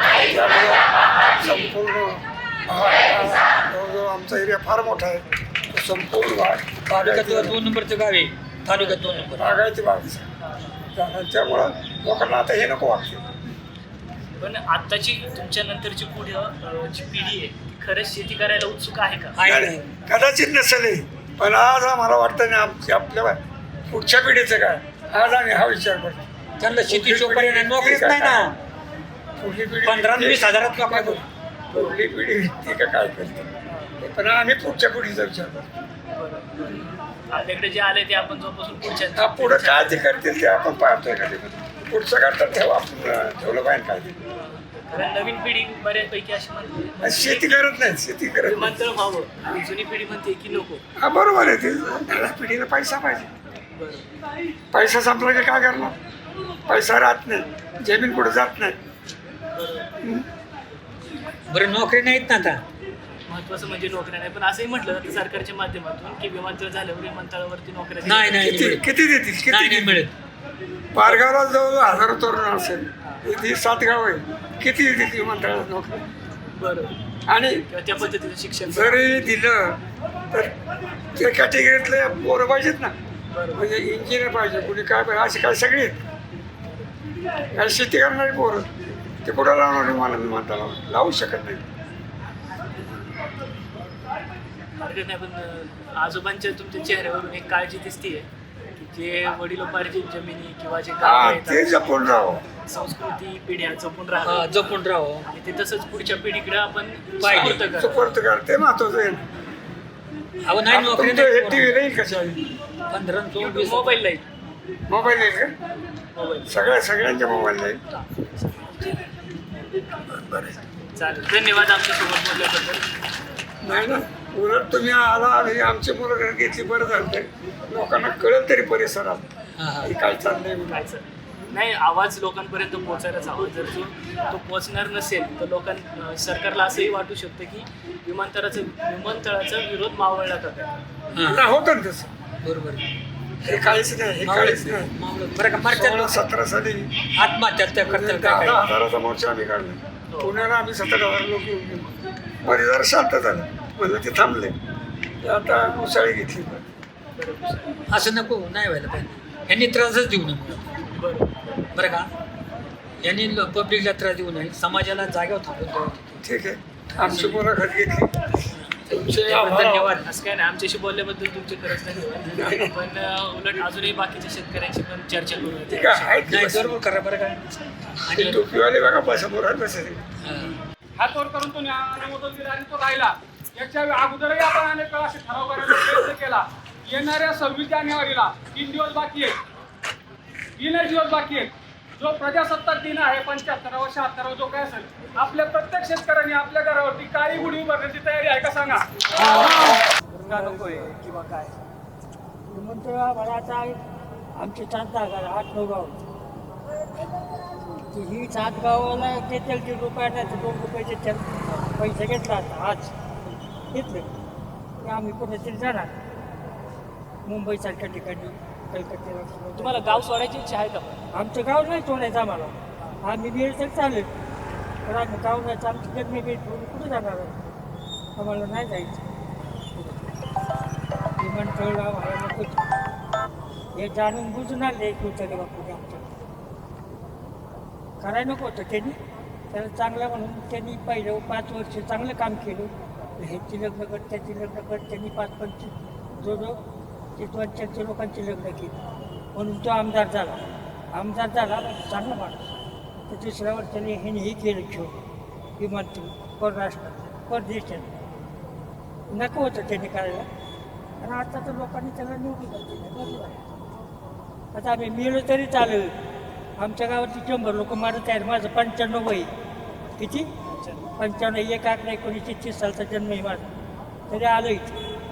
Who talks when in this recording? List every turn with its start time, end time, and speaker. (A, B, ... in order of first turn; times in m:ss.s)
0:00.2-0:00.8 A
0:01.4-0:07.6 A
0:06.9-0:09.6 B
0:08.7-0:09.3 C
0:09.4-0:10.2 A
0:10.9-0:13.3 A
0:14.4-0:19.4 C
0:19.4-0:19.9 B
0:19.4-0:26.2 A
0:26.6-0:28.6 B
0:26.9-0:28.5 A
0:29.4-0:33.5 A
0:29.8-0:31.2 B
0:31.7-0:32.0 C
0:34.0-0:35.7 A
0:36.2-0:40.1 C
0:39.1-0:44.2 A
0:44.9-0:47.7 C
0:47.0-0:48.8 A
0:48.4-0:50.8 C
0:51.0-0:53.4 A
0:53.8-0:54.1 C
0:54.7-0:56.0 A
0:56.7-0:58.8 A
0:59.6-0:59.9 C
1:01.5-1:02.6 B
1:03.3-1:08.8 C
1:08.0-1:08.9 B
1:08.4-1:10.0 A
1:09.5-1:10.1 B
1:10.9-1:16.0 A
1:16.6-1:16.9 C
1:17.3-1:17.6 A
1:17.7-1:19.1 C
1:18.7-1:19.8 A
1:21.2-1:23.0 A
1:23.3-1:23.6 C
1:23.5-1:26.0 A
1:27.5-1:28.7 A
1:29.2-1:31.6 A
1:34.8-1:44.8 C
1:41.0-1:42.4 A
1:44.2-1:45.3 B
1:45.3-1:48.2 C
1:47.2-1:47.8 B
1:47.5-1:49.2 A
1:50.4-1:51.8 B
1:50.7-1:52.6 A
1:52.9-1:54.0 B
1:53.4-1:54.2 C
1:54.9-1:55.6 A
1:56.2-1:56.5 C
1:56.5-1:57.8 A
1:57.9-1:59.1 C
2:00.1-2:00.6 A
2:01.0-2:02.8 C
2:03.6-2:09.2 A
2:09.6-2:09.9 B
2:09.8-2:10.8 A
2:10.7-2:20.7 C
2:21.1-2:21.5 B
2:21.2-2:22.1 A
2:22.4-2:22.8 B
2:23.4-2:24.9 A
2:23.4-2:26.3 B
2:25.6-2:27.0 A
2:27.2-2:28.7 B
2:27.8-2:31.9 A
2:30.1-2:30.4 C
2:32.4-2:34.6 A
2:35.2-2:36.6 A
2:37.2-2:37.7 C
2:37.9-2:40.7 B
2:40.9-2:41.3 C
2:41.7-2:42.1 B
2:43.0-2:46.2 B
2:46.2-2:48.4 A
2:46.9-2:47.5 B
2:48.6-2:50.1 B
2:48.9-2:49.9 A
2:49.5-2:56.1 C
2:52.4-2:52.7 A
2:55.7-2:56.8 A
2:56.2-2:57.4 B
2:58.0-2:58.7 B
2:58.1-3:00.0 A
3:00.2-3:00.6 B
3:01.0-3:09.4 D
3:05.6-3:06.1 A
3:10.6-3:18.9 D
3:19.2-3:21.6 C
3:20.3-3:20.8 E
3:22.5-3:23.8 E
3:24.4-3:26.0 E
3:27.9-3:32.9 E
3:33.7-3:34.1 E
3:34.8-3:35.9 E
3:37.3-3:40.0 E
3:39.6-3:41.0 C
3:41.1-3:44.1 E
3:44.8-3:47.5 E
3:48.2-3:49.1 E
3:51.2-3:52.6 E
3:53.8-3:56.1 E
3:58.0-3:59.0 E
3:59.5-4:06.6 E
4:07.2-4:08.8 E
4:09.3-4:14.9 E
4:15.6-4:17.9 E
4:19.1-4:20.3 E
4:21.0-4:23.5 E
4:24.5-4:25.9 E
4:26.6-4:29.3 E
4:30.0-4:30.3 E
4:30.4-4:30.8 C
4:31.0-4:33.5 E
4:34.1-4:34.8 E